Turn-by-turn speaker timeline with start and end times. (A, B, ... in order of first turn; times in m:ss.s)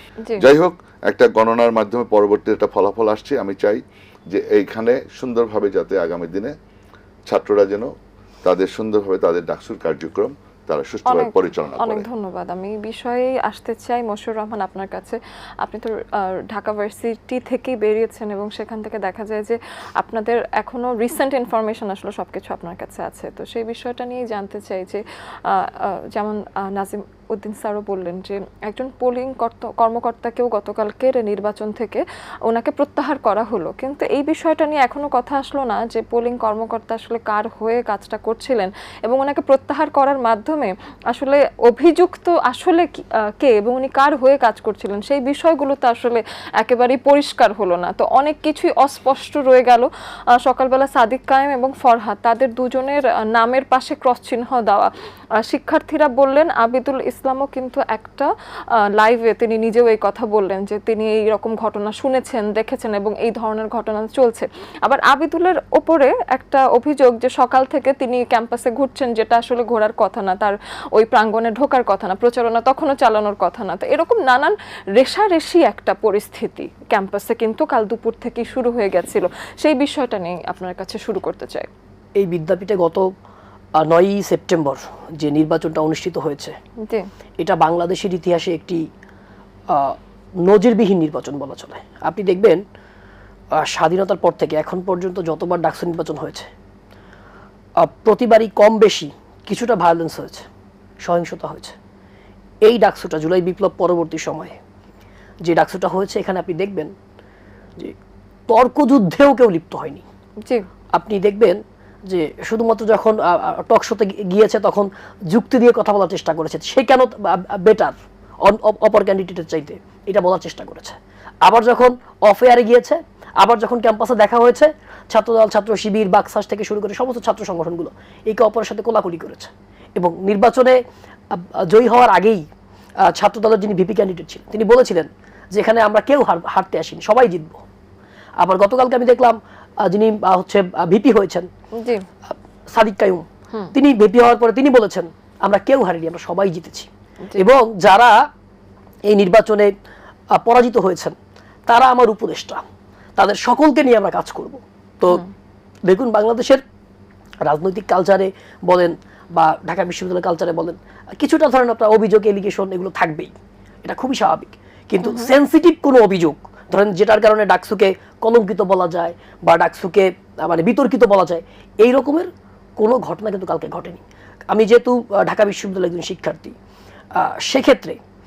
0:00.4-0:06.5 A
0:07.3-0:07.9 A
0:08.4-0:12.0 A
0:11.0-0:54.9 B
0:55.4-0:58.3 B
0:59.0-1:21.7 B
1:22.2-1:23.0 C
1:23.8-1:26.5 C
1:27.4-1:28.8 C
1:29.7-1:32.6 C
1:33.6-1:36.5 C
1:37.8-1:40.4 C
1:41.0-1:41.8 C
1:42.6-1:44.6 C
1:45.4-1:46.9 C
1:48.5-1:50.0 C
1:50.9-2:10.8 C
2:11.3-2:12.4 C
2:13.0-2:17.6 C
2:18.4-2:21.5 C
2:21.7-2:22.0 B
2:22.3-2:28.2 C
2:29.1-2:29.7 C
2:30.3-2:31.2 C
2:31.7-2:32.6 C
2:33.2-2:35.2 C
2:35.8-2:36.6 C
2:37.4-2:56.5 C
2:45.0-2:45.3 B
2:57.1-2:58.0 C